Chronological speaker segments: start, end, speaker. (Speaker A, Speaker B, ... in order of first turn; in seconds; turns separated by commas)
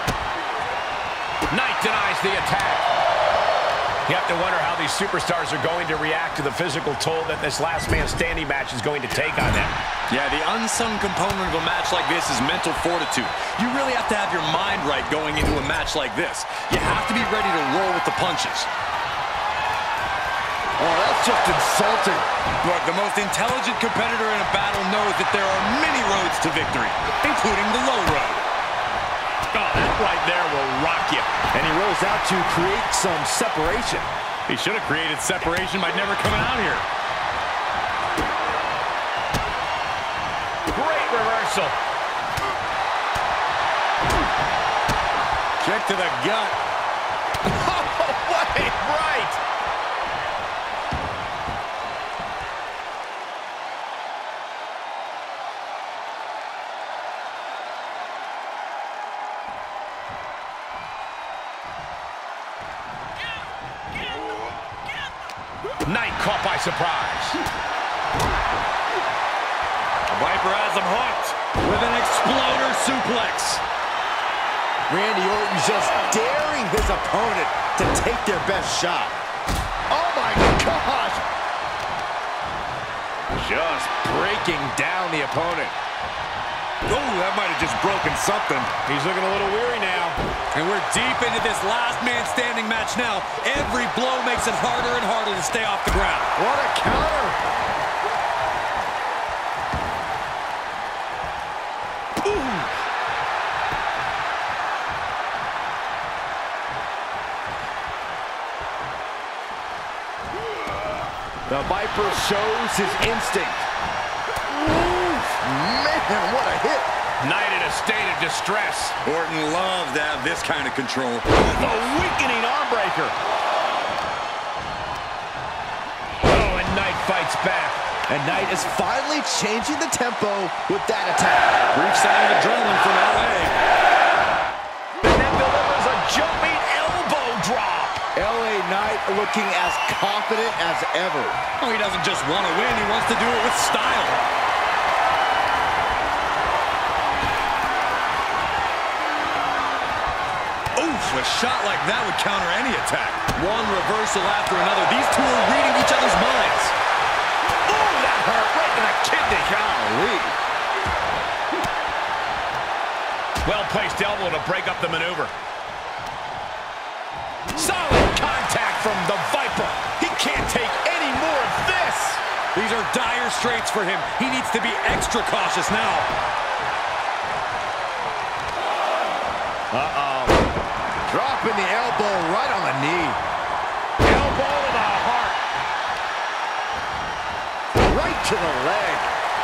Speaker A: 1.5-2.9, Speaker A: 4.1-9.8, Speaker B: 10.1-18.7, Speaker C: 20.8-22.3, Speaker B: 22.6-28.5, Speaker A: 29.5-31.4, Speaker C: 31.5-34.1, Speaker B: 34.5-36.9, Speaker A: 40.7-41.8, Speaker B: 45.6-46.6, Speaker A: 47.5-49.4, Speaker A: 65.8-67.4, Speaker B: 70.1-73.6, Speaker C: 74.9-79.2, Speaker C: 79.9-81.2, Speaker C: 83.4-85.8, Speaker B: 86.9-88.7, Speaker A: 88.8-90.2, Speaker B: 90.5-96.4, Speaker C: 96.4-97.4, Speaker C: 102.2-102.7, Speaker C: 111.5-113.7, Speaker C: 114.5-116.9, Speaker A: 117.2-119.0, Speaker B: 119.0-121.3, Speaker A: 121.4-123.1, Speaker A: 126.2-127.9, Speaker C: 128.1-131.6, Speaker B: 131.7-133.6, Speaker A: 135.0-138.0, Speaker C: 138.2-141.4, Speaker B: 141.6-144.2, Speaker B: 150.8-156.7, Speaker C: 157.9-160.3, Speaker A: 163.4-165.3, Speaker A: 167.5-172.2, Speaker B: 172.5-176.1, Speaker A: 179.7-180.3, Speaker C: 181.1-183.2, Speaker A: 184.1-185.3, Speaker C: 187.8-189.1